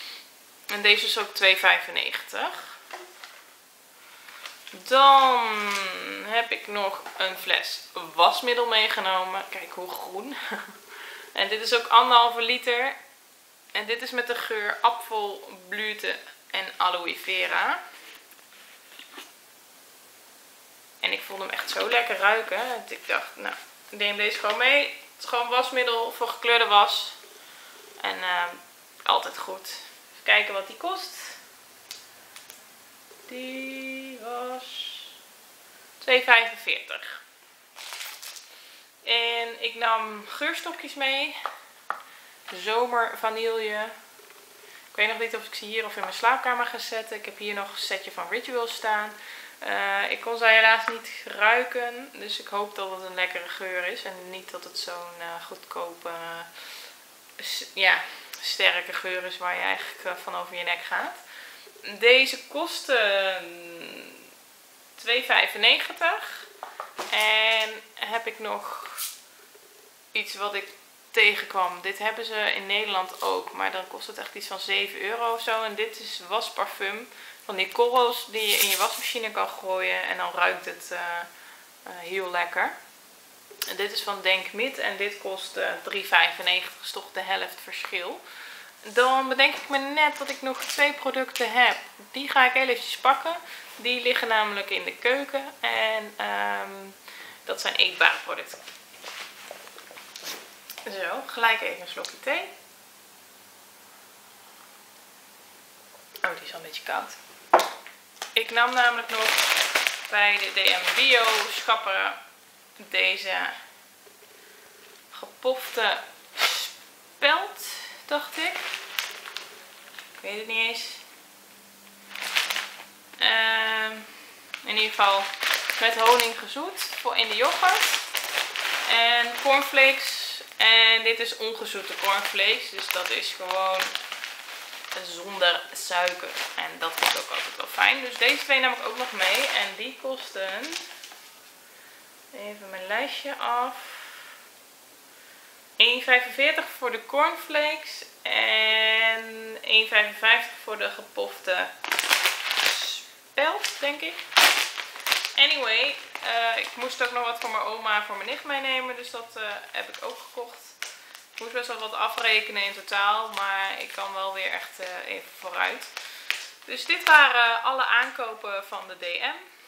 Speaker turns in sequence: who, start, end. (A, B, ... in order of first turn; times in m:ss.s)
0:00.7-0:02.8 A
0:04.7-0:10.7 A
0:11.3-0:13.0 A
0:13.7-0:17.8 A
0:21.0-0:27.2 A
0:28.0-0:31.4 A
0:33.3-0:35.1 A
0:36.0-0:37.2 A
0:39.0-0:41.4 A
0:42.5-0:44.0 A
0:44.9-0:56.6 A
0:57.4-1:01.2 A
1:01.8-1:04.3 A
1:05.0-1:06.5 A
1:07.1-1:09.1 A
1:10.1-1:21.3 A
1:21.8-1:22.8 A
1:23.7-1:28.2 A
1:28.8-1:38.6 A
1:40.9-1:42.5 A
1:46.2-1:47.2 A
1:48.4-1:52.2 A
1:52.8-1:53.6 A
1:55.1-1:58.7 A
2:00.2-2:01.0 A
2:03.2-2:08.1 A
2:08.8-2:13.9 A
2:15.0-2:20.9 A
2:22.3-2:24.3 A
2:25.8-2:31.7 A
2:32.6-2:34.2 A
2:35.4-2:40.8 A
2:41.4-2:45.9 A
2:46.6-2:49.4 A